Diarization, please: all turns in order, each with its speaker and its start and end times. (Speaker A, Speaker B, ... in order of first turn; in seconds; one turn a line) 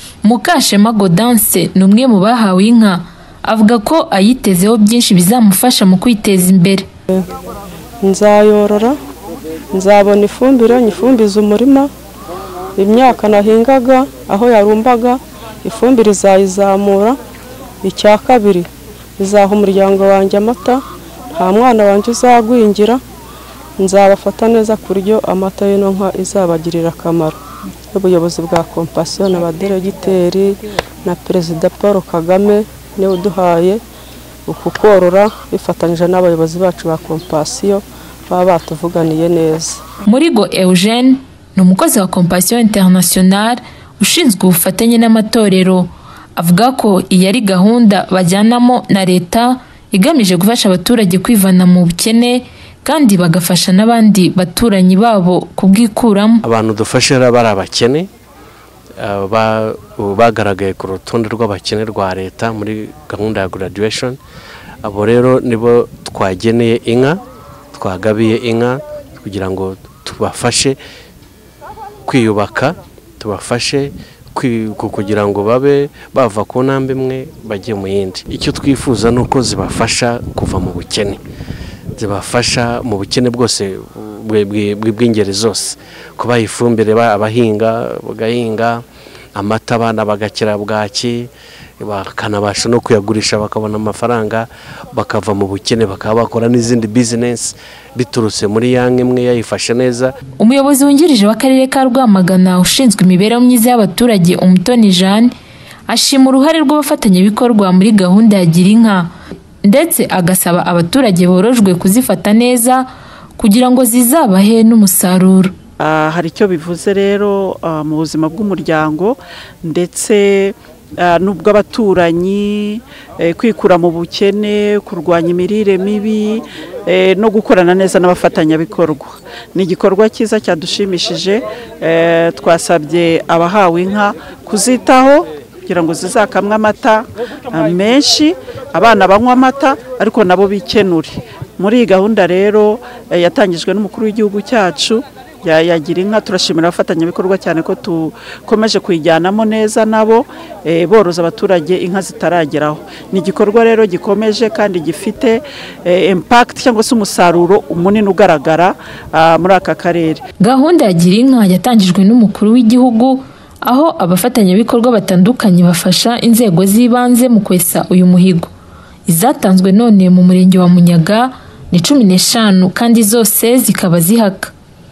Speaker A: 0.2-6.8
Speaker B: 8.0-9.0
Speaker B: 9.7-11.9
Speaker B: 12.8-17.2
Speaker B: 17.8-20.8
Speaker B: 21.3-23.0
Speaker B: 23.8-27.4
Speaker B: 27.9-33.8
Speaker B: 34.5-39.8
Speaker A: 40.0-56.4
Speaker C: 56.5-58.1
Speaker C: 59.0-64.2
Speaker C: 64.8-67.2
Speaker C: 67.7-70.8
Speaker C: 72.0-81.2
Speaker C: 82.0-88.8
Speaker C: 89.4-100.1
Speaker A: 100.4-105.3
Speaker A: 105.9-109.1
Speaker A: 109.6-112.9
Speaker A: 113.4-115.5
Speaker D: 115.8-160.2
Speaker A: 160.4-168.5
Speaker A: 169.1-174.5